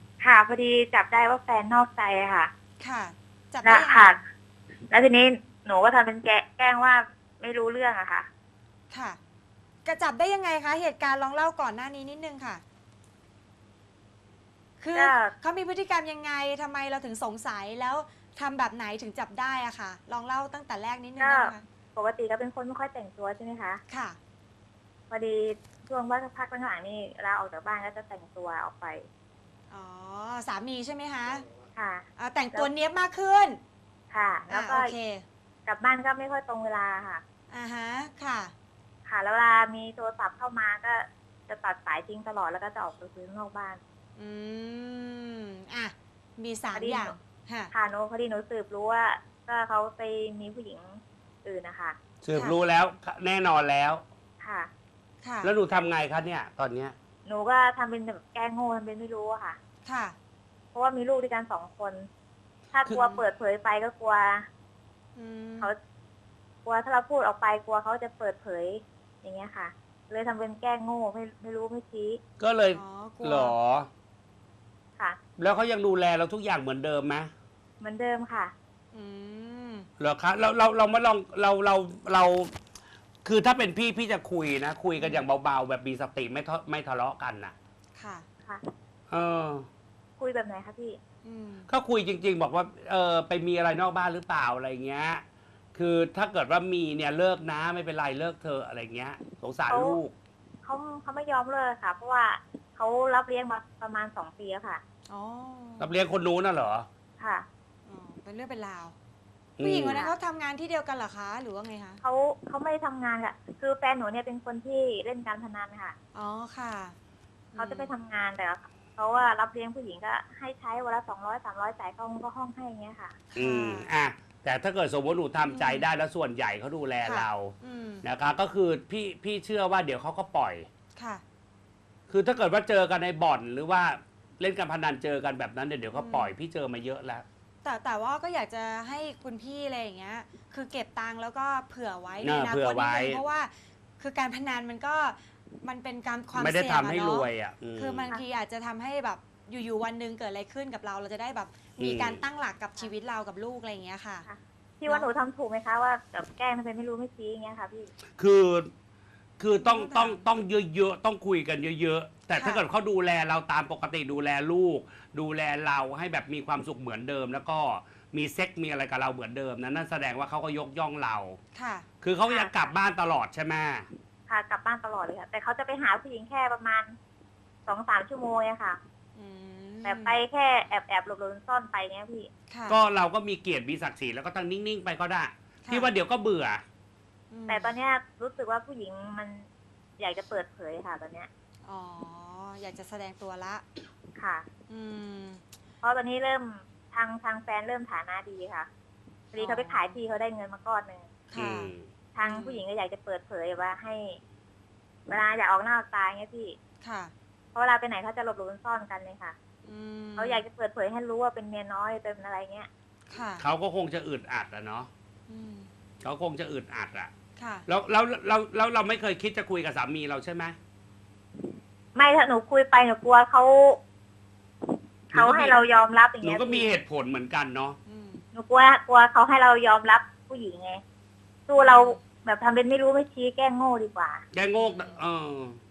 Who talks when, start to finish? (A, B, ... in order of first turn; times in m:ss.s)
0:00.2-0:02.5 A
0:02.8-0:04.2 B
0:03.6-0:04.2 A
0:04.9-0:08.3 A
0:08.9-0:09.2 B
0:09.8-0:12.6 B
0:14.8-0:21.6 B
0:14.9-0:15.3 A
0:21.2-0:23.8 A
0:23.9-0:24.2 B
0:25.1-0:29.0 A
0:29.7-0:31.4 B
0:31.8-0:32.7 A
0:32.2-0:33.6 B
0:34.1-0:34.9 A
0:34.5-0:35.2 B
0:35.6-0:37.2 A
0:37.5-0:38.5 B
0:39.0-0:43.8 A
0:44.2-0:47.7 B
0:46.7-0:47.2 A
0:47.7-0:52.0 A
0:52.2-0:54.0 C
0:54.4-0:54.7 A
0:55.2-0:55.5 B
0:55.4-0:56.9 C
0:57.2-0:59.6 A
0:59.8-1:00.2 B
1:00.7-1:02.1 A
1:02.7-1:04.5 A
1:02.9-1:03.2 B
1:05.2-1:05.7 B
1:06.6-1:12.2 A
1:12.4-1:13.9 C
1:12.7-1:13.6 B
1:15.4-1:17.3 C
1:17.8-1:18.5 A
1:18.9-1:19.9 B
1:20.0-1:22.5 C
1:23.2-1:27.5 C
1:25.0-1:25.2 B
1:28.0-1:28.3 B
1:29.1-1:29.7 C
1:30.2-1:31.0 A
1:31.2-1:31.7 B
1:31.7-1:35.2 C
1:35.7-1:40.1 C
1:39.7-1:40.0 A
1:40.6-1:44.8 A
1:45.1-1:45.9 B
1:45.8-1:46.9 C
1:47.2-1:47.4 A
1:47.8-1:48.9 B
1:49.6-1:50.0 C
1:49.6-1:52.0 B
1:49.8-1:50.1 A
1:52.0-1:56.0 A
1:56.1-1:57.0 B
1:57.5-1:57.9 B
1:57.6-2:03.2 A
2:03.3-2:03.9 B
2:03.4-2:10.7 C
2:05.5-2:05.9 B
2:07.0-2:08.0 B
2:11.0-2:11.2 B
2:12.1-2:17.2 C
2:15.9-2:16.3 B
2:17.6-2:34.2 B
2:22.2-2:23.2 C
2:26.3-2:28.1 C
2:31.8-2:32.2 C
2:34.2-2:37.9 A
2:38.2-2:38.7 C
2:39.4-2:51.4 C
2:39.6-2:40.3 B
2:42.3-2:42.6 B
2:51.5-2:51.9 B
2:52.0-2:53.9 C
2:54.3-2:56.9 A
2:57.7-2:58.8 A
2:59.2-3:00.2 B
2:59.8-3:02.3 A
3:02.5-3:02.8 B
3:02.7-3:06.6 C
3:05.6-3:05.9 B
3:07.3-3:07.8 B
3:07.5-3:09.5 A
3:10.0-3:11.3 A
3:11.6-3:13.6 B
3:14.2-3:14.4 A
3:14.7-3:15.4 B
3:15.8-3:18.7 A
3:19.3-3:21.1 A
3:19.4-3:20.0 B
3:21.3-3:22.6 B
3:21.3-3:21.9 C
3:22.1-3:24.2 A
3:25.1-3:26.6 A
3:26.8-3:27.1 B
3:27.5-3:29.4 A
3:29.6-3:30.4 B
3:30.2-3:32.7 A
3:33.1-3:33.4 B
3:33.4-3:34.9 C
3:35.3-3:35.7 B
3:36.0-3:37.1 C
3:37.4-3:37.7 B
3:37.7-3:40.6 C
3:41.9-3:43.8 A
3:45.1-3:46.7 A
3:45.1-3:45.6 C
3:46.2-3:47.8 C
3:47.8-3:48.2 B
3:48.3-3:50.8 A
3:51.5-3:54.2 A
3:51.6-3:52.0 B
3:54.3-3:55.6 C
3:54.5-3:55.0 B